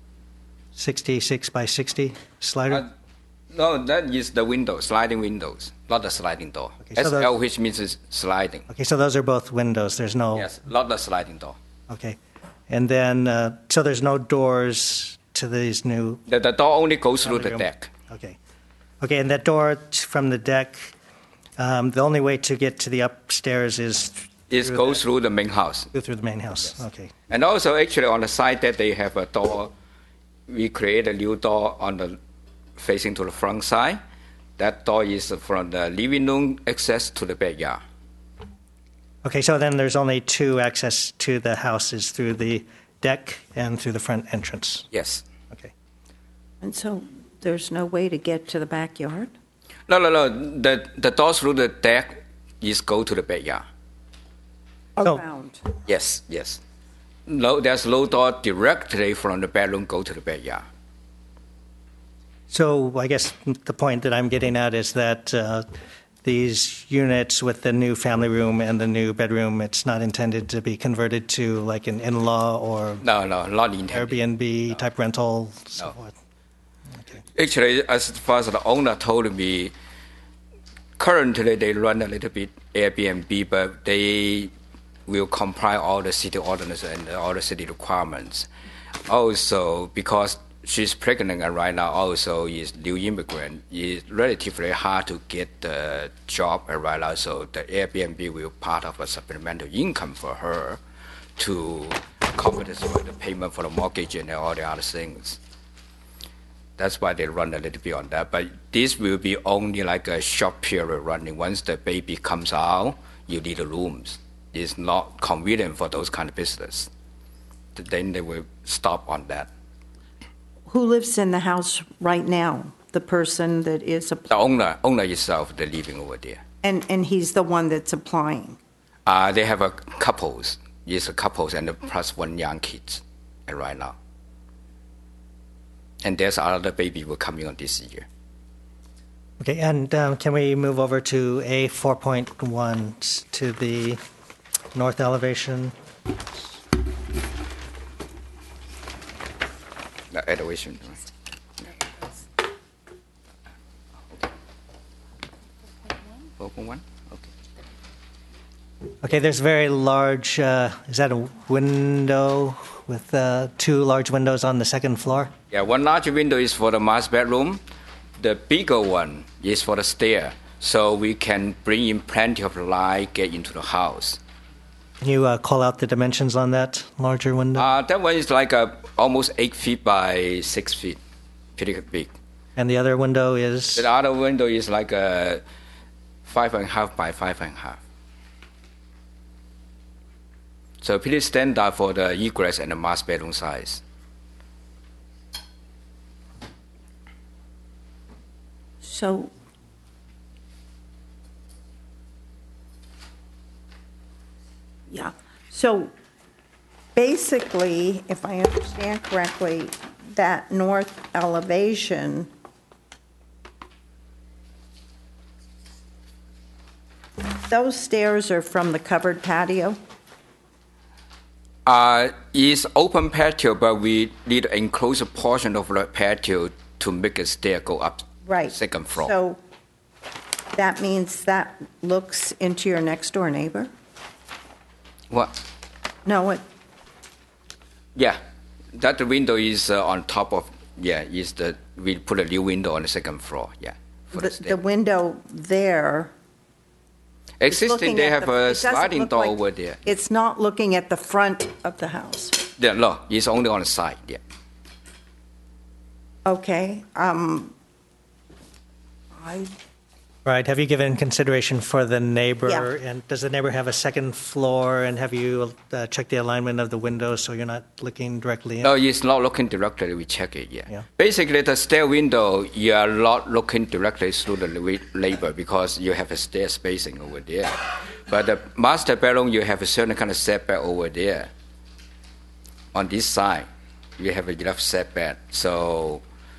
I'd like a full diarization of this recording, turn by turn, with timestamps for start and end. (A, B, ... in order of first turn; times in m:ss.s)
0:00.8-0:02.8 A
0:03.5-0:08.7 B
0:06.8-0:07.3 A
0:08.7-0:10.5 A
0:10.4-0:11.6 B
0:11.9-0:12.2 A
0:12.7-0:16.2 A
0:16.3-0:17.9 B
0:17.2-0:18.4 A
0:19.0-0:20.9 A
0:21.6-0:25.0 A
0:24.5-0:25.9 B
0:25.9-0:27.1 A
0:27.3-0:29.7 B
0:30.5-0:32.2 B
0:32.8-0:34.0 B
0:34.6-0:37.8 B
0:39.2-0:44.9 A
0:44.9-0:45.2 B
0:46.6-0:49.3 C
0:49.9-0:53.6 B
0:55.0-0:55.7 C
0:55.9-0:56.6 B
0:57.3-1:00.6 B
1:02.5-1:05.7 A
1:06.2-1:13.0 A
1:13.0-1:14.2 B
1:13.9-1:16.1 A
1:17.3-1:19.7 B
1:21.0-1:24.5 B
1:25.1-1:28.5 B
1:29.1-1:40.8 B
1:41.4-1:45.4 B
1:46.8-1:56.9 B
1:57.8-1:59.5 B
2:00.7-2:04.3 C
2:04.3-2:06.4 B
2:06.6-2:08.6 C
2:09.0-2:13.9 B
2:16.0-2:18.0 B
2:19.4-2:24.0 A
2:24.7-2:25.7 A
2:30.1-2:31.0 B
2:36.4-2:37.3 B
2:39.0-2:45.3 A
2:45.5-2:47.6 B
2:48.2-2:54.2 B
2:55.0-2:57.7 A
2:57.6-3:01.0 B
3:01.6-3:02.1 B
3:02.6-3:03.9 A
3:03.8-3:05.4 B
3:06.2-3:07.8 B
3:10.8-3:13.8 B
3:18.8-3:19.3 C
3:24.9-3:25.9 C
3:26.9-3:32.3 C
3:37.4-3:39.8 C
3:41.6-3:49.1 B
3:48.2-3:49.4 C
3:50.5-3:53.7 C
3:55.1-3:55.4 B
3:56.0-3:56.4 C
3:58.7-4:04.6 B
4:04.1-4:06.1 C
4:07.4-4:09.8 B
4:07.5-4:12.4 C
4:12.6-4:14.2 B
4:16.2-4:17.5 C
4:19.2-4:19.5 C
4:20.2-4:28.8 A
4:28.6-4:41.3 B
4:42.7-4:43.5 B
4:44.0-4:46.0 B